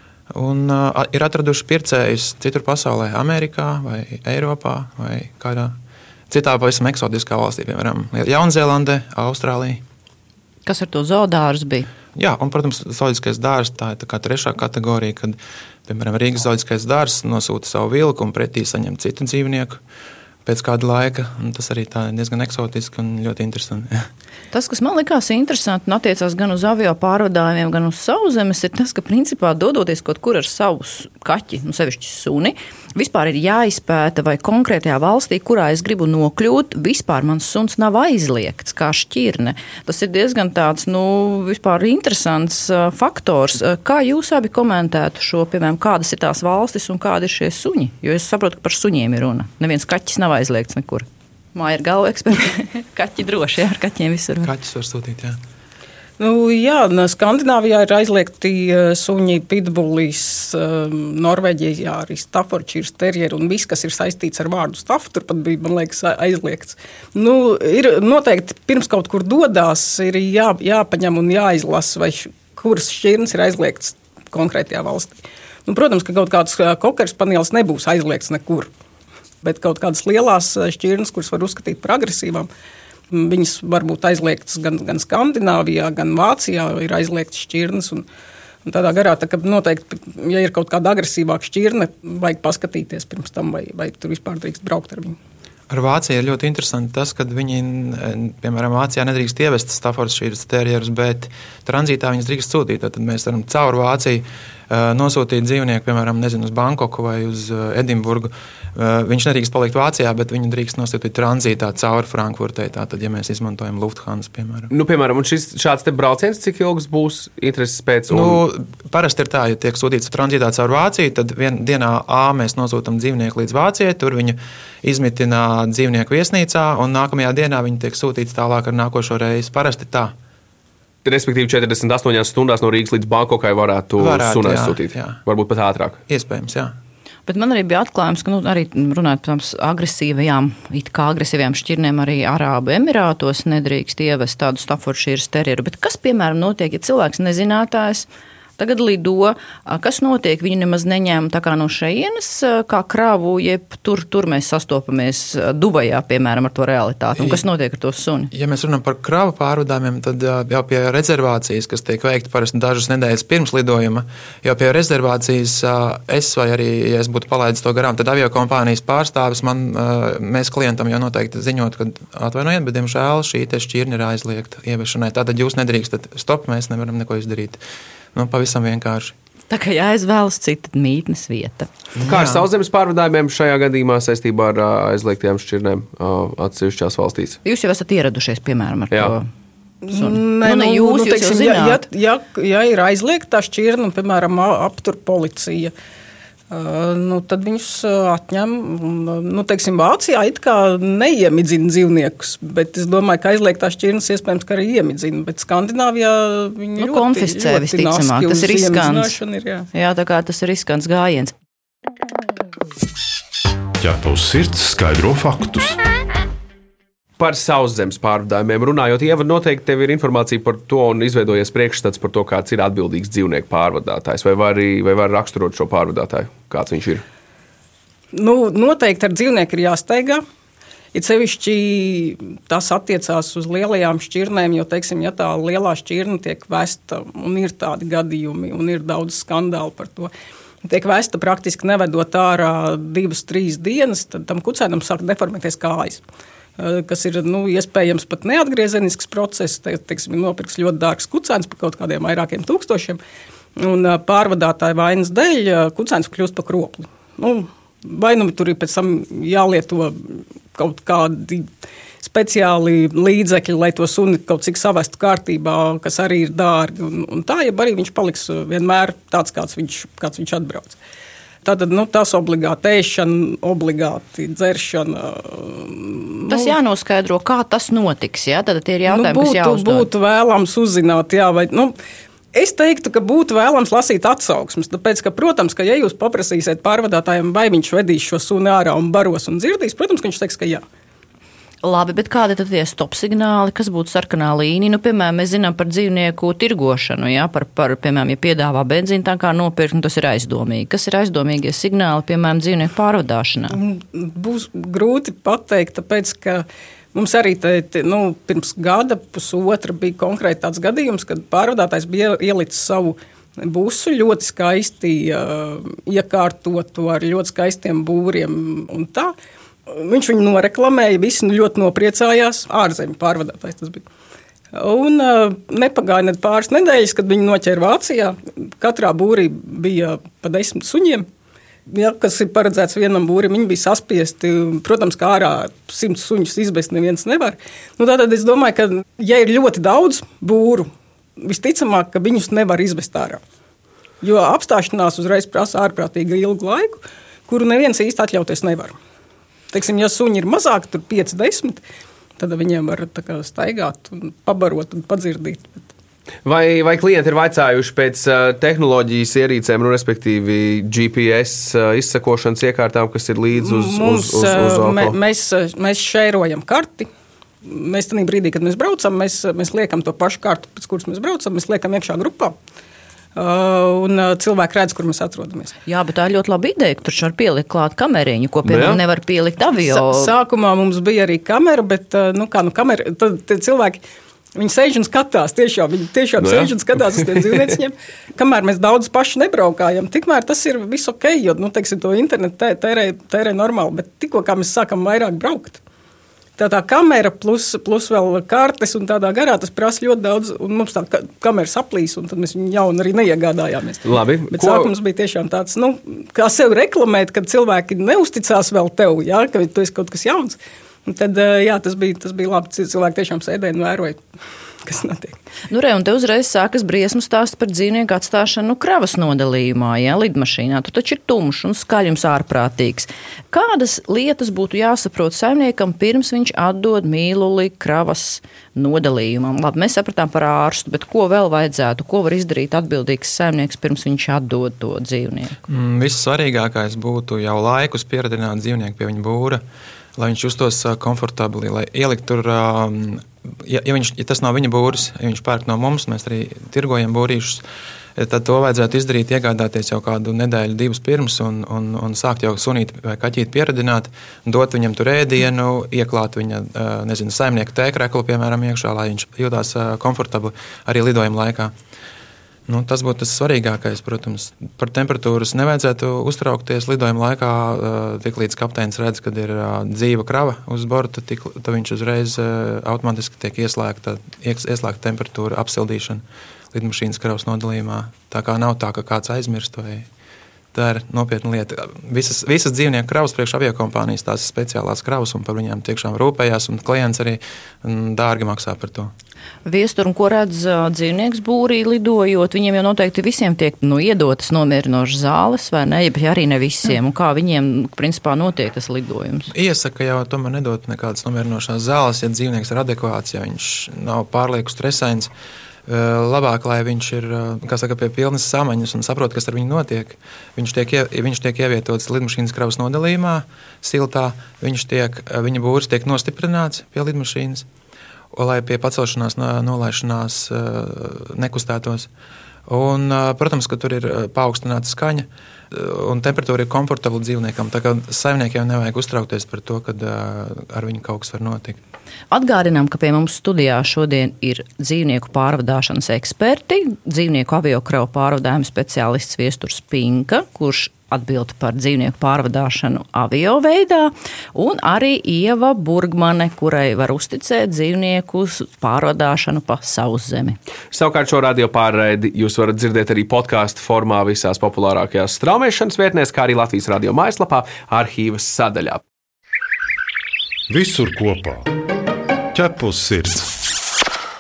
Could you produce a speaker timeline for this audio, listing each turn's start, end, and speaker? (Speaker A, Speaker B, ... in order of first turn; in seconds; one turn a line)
Speaker A: 0.3-5.8
Speaker A: 6.3-9.8
Speaker B: 10.7-11.9
Speaker A: 12.2-19.8
Speaker A: 20.4-24.1
Speaker B: 24.5-54.5
Speaker A: 54.4-55.4
Speaker C: 56.2-78.7
Speaker C: 79.4-82.5
Speaker C: 83.1-88.1
Speaker C: 88.7-95.2
Speaker A: 95.7-114.7
Speaker D: 114.7-118.4
Speaker A: 118.1-130.1
Speaker D: 131.1-136.0
Speaker A: 134.0-135.2
Speaker A: 136.1-136.7
Speaker B: 137.3-158.3
Speaker A: 158.3-177.6
Speaker A: 178.1-179.2
Speaker B: 179.5-181.7
Speaker A: 182.0-182.5
Speaker D: 182.0-187.4
Speaker B: 187.4-189.3
Speaker C: 189.8-195.7
Speaker B: 189.9-191.9
Speaker C: 196.5-209.7
Speaker B: 206.8-209.2
Speaker B: 209.7-211.3
Speaker E: 213.8-215.8
Speaker D: 217.2-227.0
Speaker C: 228.1-230.2
Speaker C: 230.9-240.1
Speaker C: 240.6-246.0
Speaker C: 246.6-253.0
Speaker C: 253.6-261.5
Speaker C: 262.0-270.8
Speaker C: 271.4-276.6
Speaker B: 276.3-279.9
Speaker C: 278.9-281.8
Speaker C: 282.3-290.6
Speaker B: 291.6-303.6
Speaker C: 303.5-319.1
Speaker C: 319.7-323.9
Speaker C: 324.5-331.1
Speaker C: 331.7-343.2
Speaker C: 344.0-348.8
Speaker C: 349.5-351.6
Speaker C: 352.2-355.6
Speaker D: 356.2-365.0
Speaker C: 363.4-366.9
Speaker C: 367.4-372.4
Speaker C: 373.2-375.5
Speaker B: 375.7-380.1
Speaker D: 378.4-378.8
Speaker C: 379.6-383.8
Speaker C: 384.4-395.6
Speaker D: 386.2-387.5
Speaker C: 396.4-414.0
Speaker D: 403.9-404.7
Speaker C: 414.6-415.2
Speaker B: 415.5-435.4
Speaker A: 435.5-439.4
Speaker A: 440.0-447.4
Speaker A: 448.0-461.5
Speaker A: 462.5-479.9
Speaker A: 480.5-488.9
Speaker B: 489.4-499.3
Speaker A: 499.3-505.1
Speaker A: 505.7-517.5
Speaker A: 518.1-521.9
Speaker A: 522.5-531.6
Speaker B: 532.1-550.4
Speaker D: 550.7-558.8
Speaker E: 560.5-561.5
Speaker E: 562.3-563.3